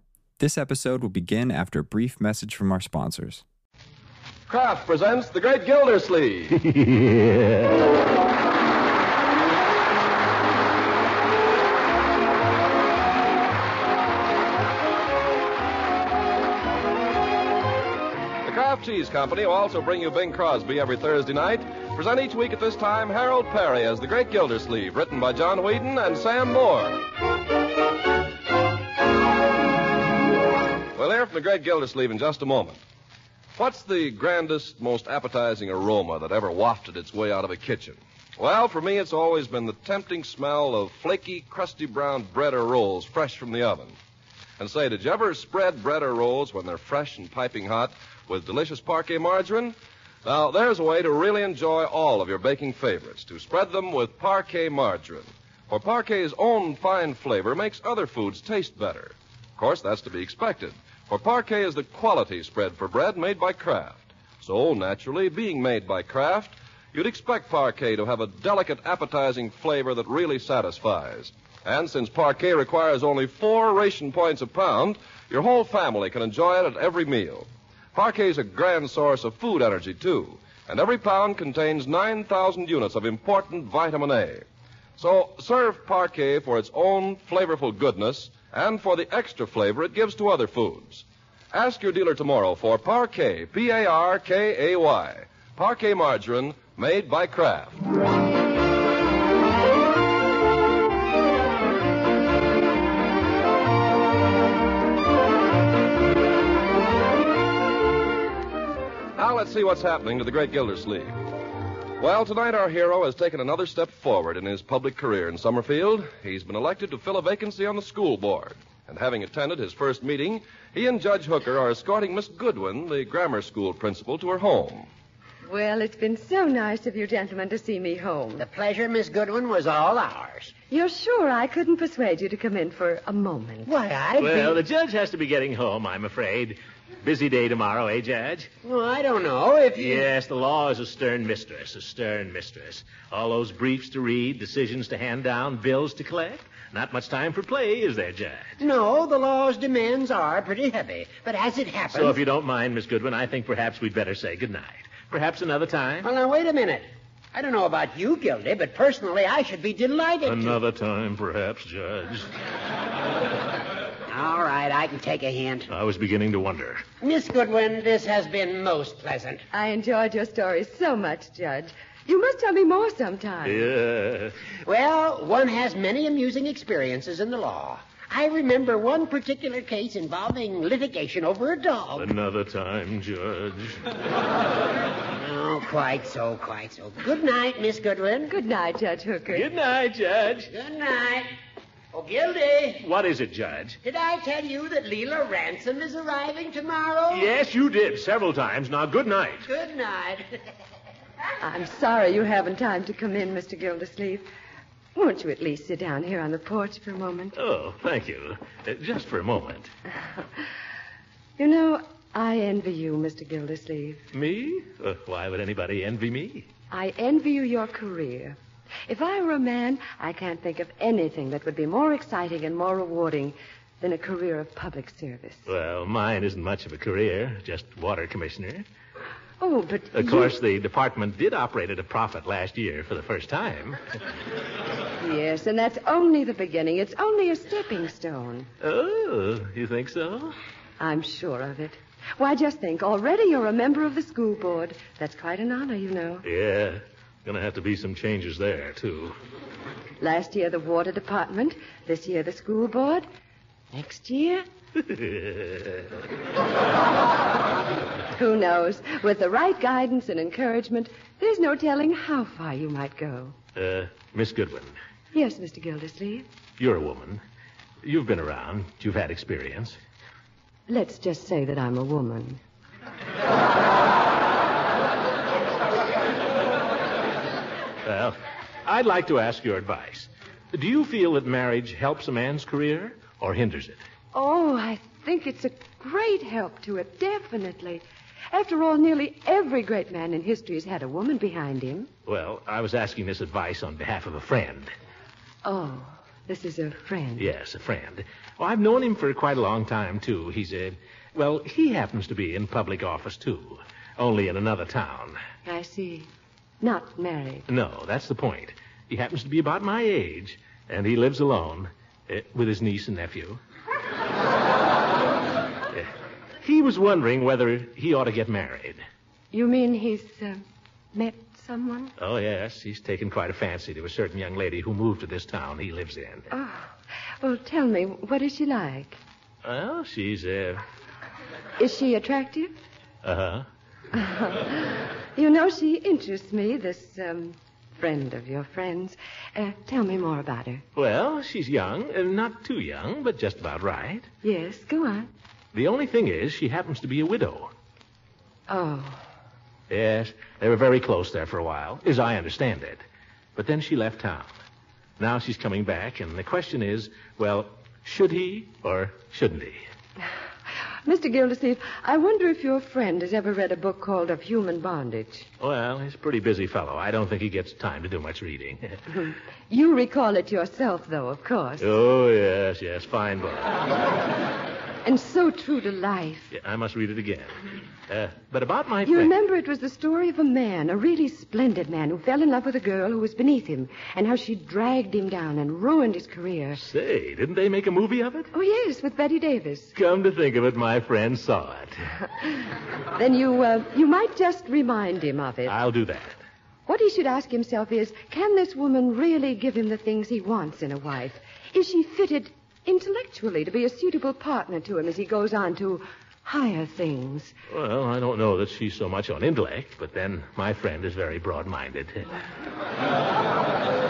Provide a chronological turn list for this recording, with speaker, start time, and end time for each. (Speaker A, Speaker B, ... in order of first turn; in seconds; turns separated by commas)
Speaker A: 0.4-3.4, Speaker B: 4.5-6.6, Speaker C: 6.5-7.9, Speaker B: 18.4-27.0, Speaker B: 30.9-32.8, Speaker B: 33.6-44.0, Speaker B: 44.6-84.4, Speaker B: 85.0-97.8, Speaker B: 109.2-111.2, Speaker B: 112.0-124.9, Speaker D: 125.5-128.4, Speaker E: 128.4-130.5, Speaker D: 130.7-133.7, Speaker E: 133.7-134.6, Speaker C: 134.2-138.5, Speaker E: 138.6-140.1, Speaker C: 139.8-148.6, Speaker E: 148.6-152.2, Speaker C: 151.9-156.1, Speaker E: 156.0-160.6, Speaker C: 160.2-162.3, Speaker E: 164.1-165.7, Speaker C: 165.7-166.8, Speaker E: 167.0-169.4, Speaker D: 169.5-173.7, Speaker C: 173.4-174.4, Speaker E: 174.7-182.1, Speaker C: 182.0-183.9, Speaker E: 185.2-188.3, Speaker D: 188.3-189.5, Speaker C: 189.3-190.5, Speaker E: 190.5-191.3, Speaker E: 191.9-192.9, Speaker C: 192.8-193.8, Speaker E: 193.8-197.3, Speaker C: 197.1-199.5, Speaker E: 199.5-200.2, Speaker D: 201.4-204.3, Speaker D: 204.9-207.4, Speaker C: 207.3-209.7, Speaker D: 211.4-214.0, Speaker C: 214.1-216.5, Speaker D: 216.7-225.5, Speaker C: 225.5-228.7, Speaker D: 229.4-230.3, Speaker C: 229.9-233.8, Speaker D: 235.0-238.5, Speaker C: 238.6-240.3, Speaker D: 240.8-246.2, Speaker C: 246.2-249.2, Speaker D: 250.0-253.1, Speaker D: 253.7-254.5, Speaker C: 254.8-255.9, Speaker D: 258.1-263.3, Speaker C: 263.6-264.8, Speaker D: 265.1-266.3, Speaker C: 266.6-267.2, Speaker C: 267.8-269.8, Speaker D: 270.7-272.4, Speaker C: 277.8-283.8, Speaker D: 284.1-291.9, Speaker C: 292.1-294.7, Speaker D: 295.4-297.3, Speaker C: 297.2-305.2, Speaker D: 305.4-306.1, Speaker D: 306.6-307.5, Speaker C: 307.5-313.4, Speaker C: 315.7-318.8, Speaker D: 319.3-320.4, Speaker D: 320.9-321.9, Speaker C: 322.0-326.3, Speaker D: 326.3-329.0, Speaker C: 329.4-330.6, Speaker D: 331.6-332.5, Speaker C: 333.0-333.5, Speaker D: 333.9-340.6, Speaker C: 340.8-344.1, Speaker D: 344.2-345.1, Speaker C: 345.5-347.5, Speaker D: 348.5-349.0, Speaker C: 349.7-352.8, Speaker C: 353.4-354.4, Speaker C: 355.0-359.7, Speaker D: 360.8-365.3, Speaker C: 365.4-368.9, Speaker D: 369.1-371.7, Speaker C: 371.6-373.7, Speaker D: 374.8-376.3, Speaker C: 376.3-379.1, Speaker D: 378.8-386.6, Speaker C: 386.6-388.3, Speaker D: 388.3-389.8, Speaker C: 389.8-391.9, Speaker D: 392.9-395.6, Speaker C: 395.5-396.2, Speaker D: 396.7-407.3, Speaker C: 407.5-412.1